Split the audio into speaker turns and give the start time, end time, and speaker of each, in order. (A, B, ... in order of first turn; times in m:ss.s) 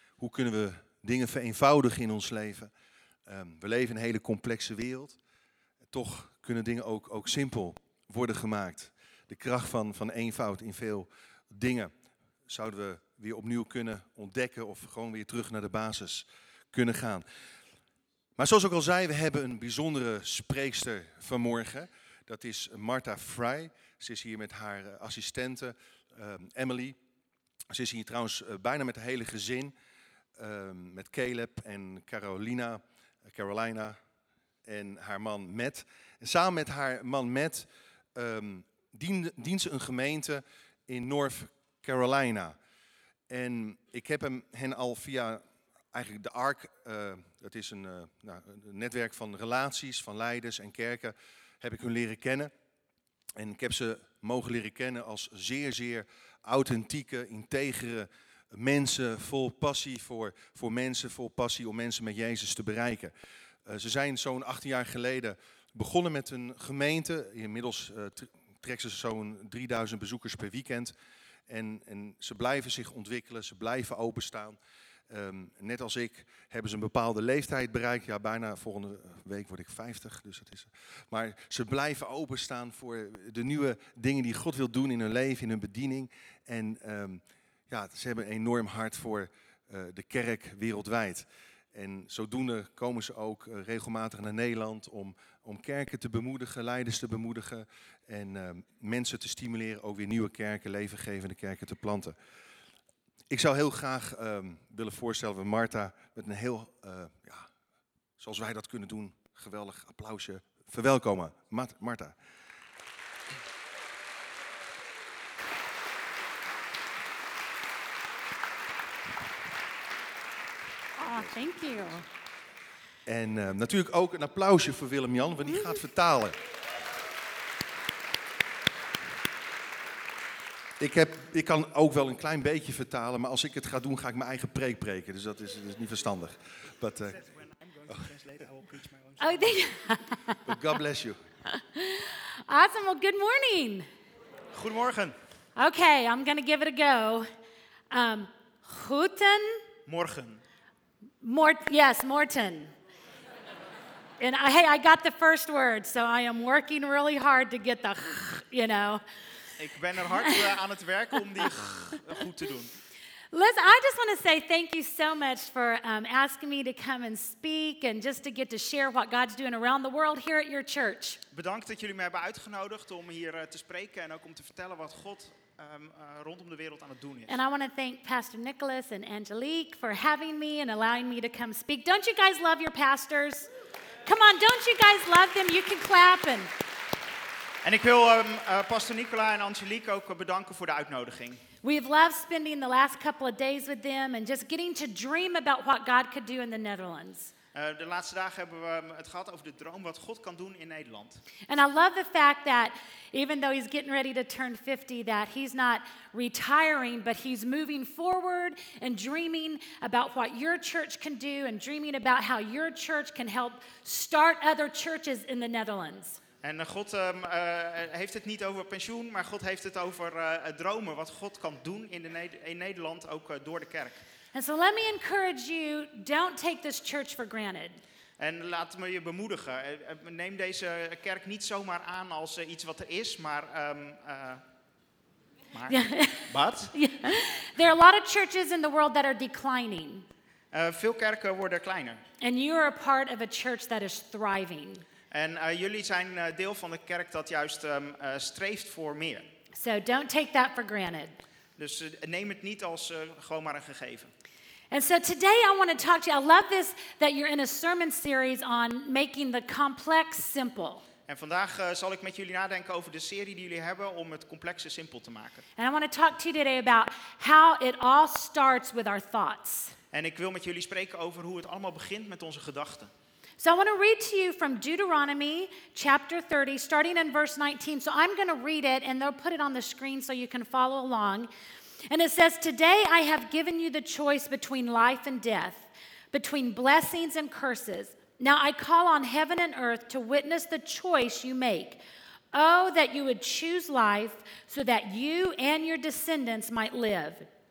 0:00.2-0:02.7 A
0:03.3-0:05.2 A
0:05.9-0:11.9 A
0:12.5-0:17.2 A
0:18.4-0:27.0 A
0:27.7-0:29.7 A
0:30.4-0:34.0 A
0:34.6-0:42.6 A
0:43.3-0:52.5 A
0:53.4-1:03.1 A
1:03.6-1:10.9 A
1:11.5-1:14.6 A
1:15.1-1:42.1 A
1:43.3-1:47.5 A
1:48.2-1:52.1 A
2:01.0-2:02.0 B
2:03.1-2:06.4 A
2:10.8-2:17.2 A
2:17.1-2:19.6 C
2:19.2-2:20.6 B
2:20.4-2:21.2 A
2:21.7-2:23.9 B
2:24.5-2:25.1 C
2:25.6-2:27.2 B
2:27.9-2:29.6 B
2:29.9-2:30.4 C
2:31.2-2:32.7 B
2:34.2-2:39.0 B
2:39.6-2:42.7 C
2:43.3-2:51.2 B
2:51.3-2:57.3 C
2:57.3-3:03.5 B
3:04.0-3:06.5 B
3:07.6-3:11.4 C
3:11.6-3:17.3 B
3:17.5-3:21.2 C
3:21.5-3:36.2 B
3:36.4-3:44.0 C
3:44.3-3:47.8 B
3:48.2-3:54.4 C
3:55.5-3:56.7 C
3:55.7-4:00.0 B
4:00.5-4:02.0 C
4:02.2-4:04.8 B
4:05.1-4:09.3 C
4:09.5-4:11.1 B
4:11.6-4:14.1 C
4:14.7-4:20.8 B
4:21.1-4:25.4 C
4:25.6-4:29.7 B
4:29.9-4:32.9 C
4:33.4-4:41.3 B
4:41.9-4:51.8 B
4:52.3-4:57.2 B